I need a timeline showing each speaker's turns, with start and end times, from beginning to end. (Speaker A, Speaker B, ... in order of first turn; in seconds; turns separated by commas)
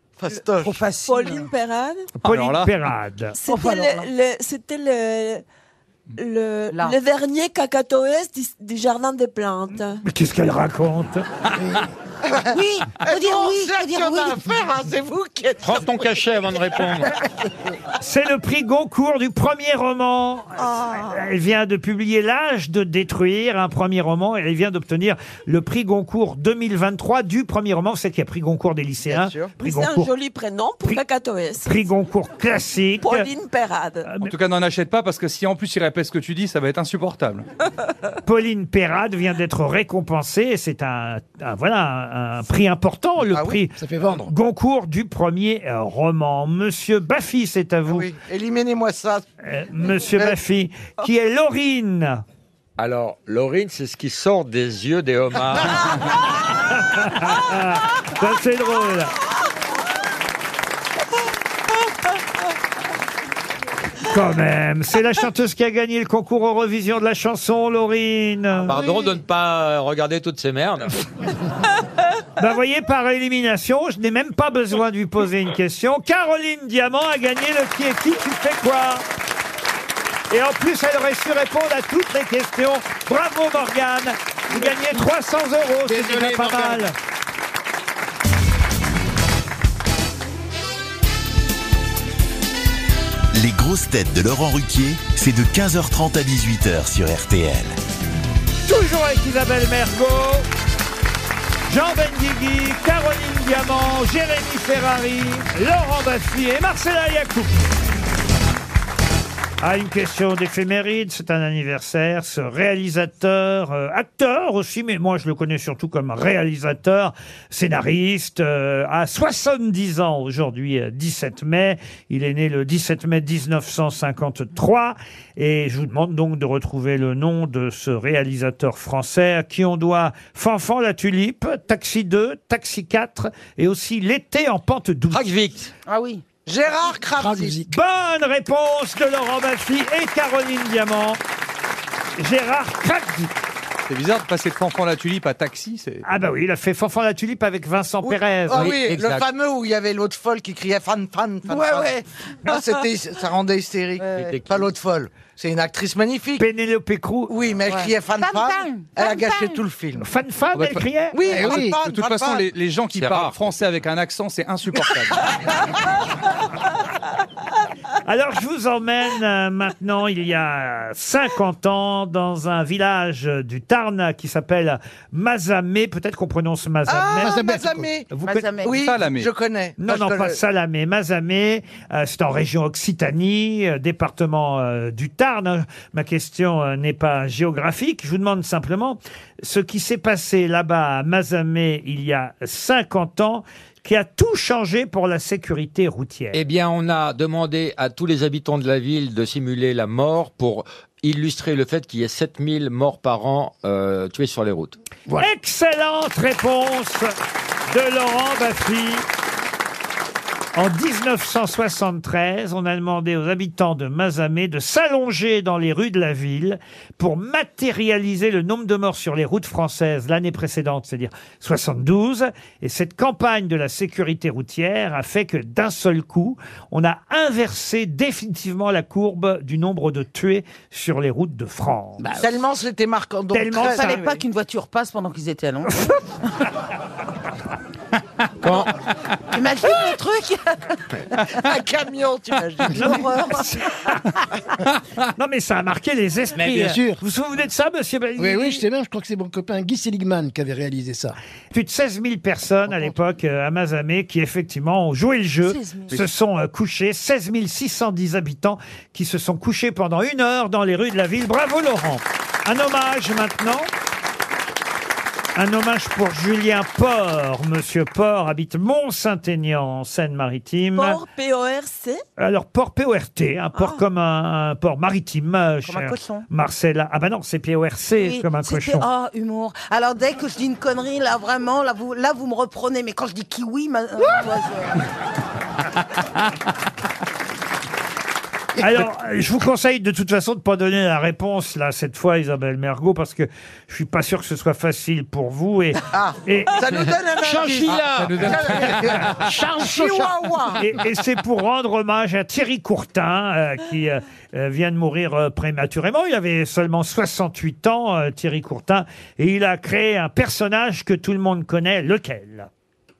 Speaker A: 0.2-0.8, Speaker B: 0.6-1.5, Speaker C: 1.1-2.1, Speaker D: 2.2-2.7, Speaker E: 2.2-3.3, Speaker C: 3.4-5.4, Speaker B: 3.4-4.1, Speaker C: 6.2-10.0, Speaker E: 10.1-11.3, Speaker A: 12.2-16.1, Speaker B: 12.5-14.5, Speaker F: 15.6-17.1, Speaker E: 18.0-30.1, Speaker C: 20.8-21.1, Speaker A: 29.1-29.5, Speaker C: 29.6-31.8, Speaker E: 31.6-33.3, Speaker C: 33.0-34.1, Speaker E: 34.1-34.3, Speaker D: 34.2-37.5, Speaker E: 38.2-48.1, Speaker A: 43.3-43.6, Speaker G: 43.7-44.3, Speaker A: 47.9-49.2, Speaker E: 49.4-52.2, Speaker A: 50.1-50.4, Speaker F: 52.8-56.0, Speaker E: 56.7-59.1, Speaker E: 64.1-68.8, Speaker F: 68.6-71.0, Speaker E: 72.4-79.0, Speaker E: 80.3-86.9, Speaker G: 85.9-86.8, Speaker H: 93.3-97.8, Speaker E: 98.6-100.5, Speaker E: 101.7-107.7, Speaker E: 109.6-135.2, Speaker F: 135.1-135.7, Speaker B: 135.9-136.2, Speaker A: 136.4-137.6, Speaker G: 137.2-137.7, Speaker E: 137.7-141.2, Speaker E: 142.2-143.3, Speaker D: 143.9-146.0, Speaker E: 146.0-148.8, Speaker A: 148.0-156.4, Speaker F: 148.5-149.2, Speaker B: 151.5-152.0, Speaker B: 154.0-154.3, Speaker F: 154.1-154.6, Speaker E: 156.4-157.3, Speaker A: 157.3-160.1, Speaker B: 157.7-159.6, Speaker E: 160.0-161.3, Speaker D: 160.5-160.8, Speaker A: 161.1-162.5, Speaker G: 161.3-161.8, Speaker D: 161.4-165.2, Speaker F: 162.9-163.4, Speaker E: 168.0-178.6, Speaker A: 176.8-178.1, Speaker G: 177.2-177.8, Speaker B: 178.2-178.8, Speaker A: 178.6-180.4, Speaker D: 178.7-179.3, Speaker E: 179.8-196.4, Speaker F: 196.3-204.8, Speaker E: 205.2-207.1, Speaker E: 207.7-209.1, Speaker E: 210.5-232.0, Speaker B: 232.0-232.2, Speaker A: 232.1-234.1, Speaker E: 233.3-234.0, Speaker B: 233.6-235.9, Speaker F: 238.4-238.7, Speaker B: 239.3-241.2, Speaker A: 241.3-243.1, Speaker B: 242.7-243.5, Speaker E: 242.8-244.0, Speaker E: 245.2-248.6, Speaker G: 246.4-247.0, Speaker G: 248.2-251.2, Speaker E: 251.5-263.7, Speaker B: 255.4-255.9, Speaker E: 265.3-271.0, Speaker C: 270.8-272.0, Speaker E: 272.2-278.9, Speaker C: 273.5-273.8, Speaker B: 275.6-276.3, Speaker B: 278.0-284.8, Speaker E: 288.6-296.8, Speaker A: 295.9-300.7, Speaker F: 297.1-298.9, Speaker D: 297.9-299.0, Speaker G: 299.3-300.1, Speaker E: 300.6-312.5